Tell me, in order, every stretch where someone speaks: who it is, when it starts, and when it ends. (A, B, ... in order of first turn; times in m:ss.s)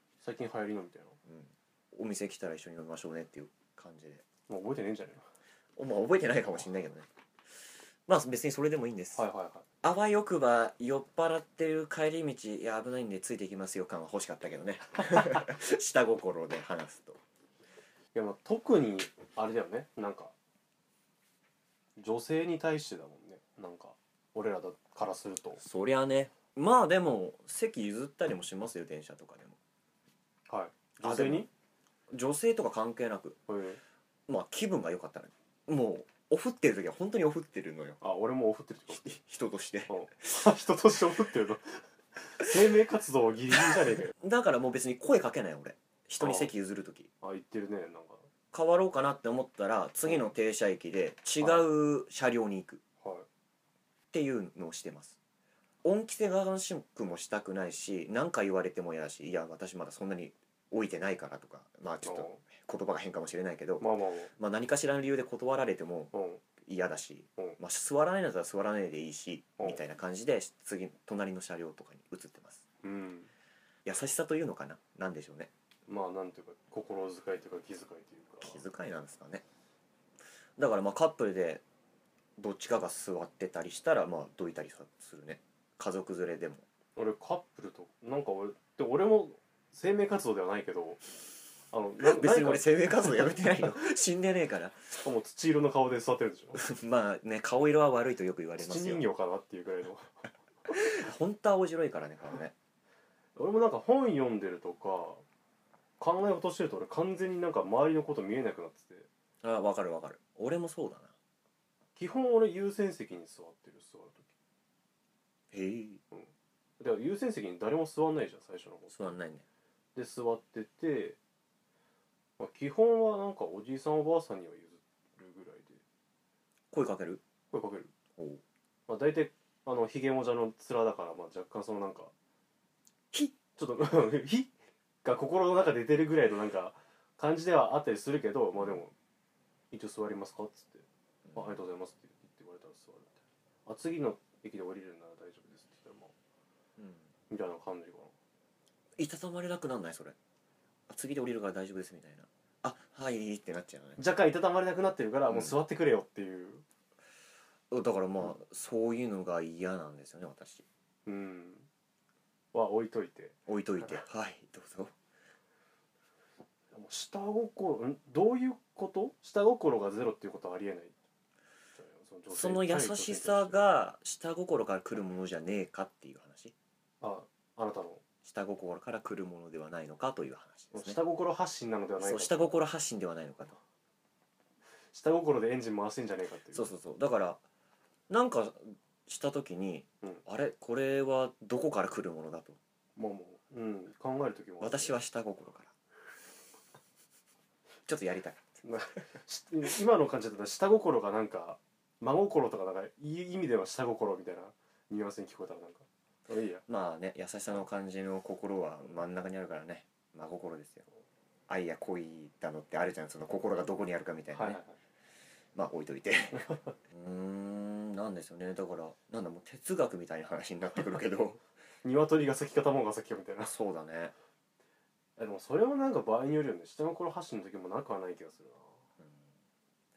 0:00.2-0:01.2 A
0:01.2-0:04.2 B
0:04.5-0:05.2 A
0:05.8-0:07.1 B
0:08.1-0:09.2 B
0:09.1-0:09.6 A
0:09.8-0:17.2 B
0:18.1-0:20.3 A
0:22.0-0:25.6 A
0:25.6-0:29.6 B
0:30.5-0:31.5 A
0:31.0-0:31.4 B
0:32.1-0:33.4 B
0:33.5-0:33.8 A
0:34.3-0:38.0 B
0:38.0-0:39.2 A
0:38.9-0:40.0 B
0:39.9-0:41.8 A
0:42.4-0:44.1 A
0:44.2-0:47.1 B
0:46.2-0:46.5 A
0:47.2-0:48.3 A
0:48.5-0:52.8 B
0:51.4-0:51.7 A
0:54.1-0:55.2 B
0:55.8-1:12.6 B
1:02.0-1:02.4 A
1:03.8-1:04.3 A
1:06.1-1:06.4 A
1:12.8-1:13.3 A
1:13.8-1:15.5 B
1:15.9-1:18.6 A
1:18.4-1:19.4 B
1:20.6-1:21.6 B
1:22.4-1:26.6 B
1:27.0-1:31.0 A
1:31.7-1:33.7 A
1:32.0-1:35.0 B
1:35.0-1:36.6 A
1:36.6-1:39.0 B
1:38.6-1:40.1 A
1:40.7-1:42.5 B
1:43.4-1:45.2 A
1:46.0-1:49.1 A
1:49.4-1:51.1 B
1:52.0-1:54.3 A
1:55.5-1:56.0 B
1:56.1-1:58.9 A
1:58.9-1:59.4 B
1:59.9-2:01.2 A
2:02.4-2:05.8 A
2:06.7-2:07.2 B
2:07.5-2:07.9 A
2:08.2-2:08.4 B
2:08.9-2:12.1 A
2:13.1-2:13.4 B
2:13.6-2:14.5 A
2:15.0-2:18.9 A
2:19.7-2:26.1 A
2:21.3-2:21.6 B
2:26.8-2:27.1 B
2:27.3-2:28.1 A
2:29.0-2:30.2 B
2:30.9-2:34.0 B
2:34.0-2:36.6 A
2:35.3-2:35.6 B
2:37.7-2:40.6 B
2:41.0-2:41.7 A
2:42.5-2:43.3 A
2:43.5-2:44.9 B
2:46.7-2:50.9 A
2:51.7-2:53.6 A
2:52.3-2:56.5 B
2:57.0-2:58.0 A
2:58.2-3:01.0 B
3:00.7-3:02.5 A
3:02.0-3:03.6 B
3:04.9-3:06.7 A
3:06.5-3:07.4 B
3:08.1-3:12.6 B
3:13.0-3:15.0 A
3:14.6-3:15.7 B
3:17.9-3:18.4 B
3:18.6-3:26.6 A
3:26.7-3:30.8 B
3:31.5-3:34.6 B
3:34.3-3:34.8 A
3:35.5-3:36.4 B
3:36.3-3:36.8 A
3:36.9-3:41.4 B
3:41.8-3:43.5 A
3:43.4-3:44.1 B
3:45.2-3:48.7 A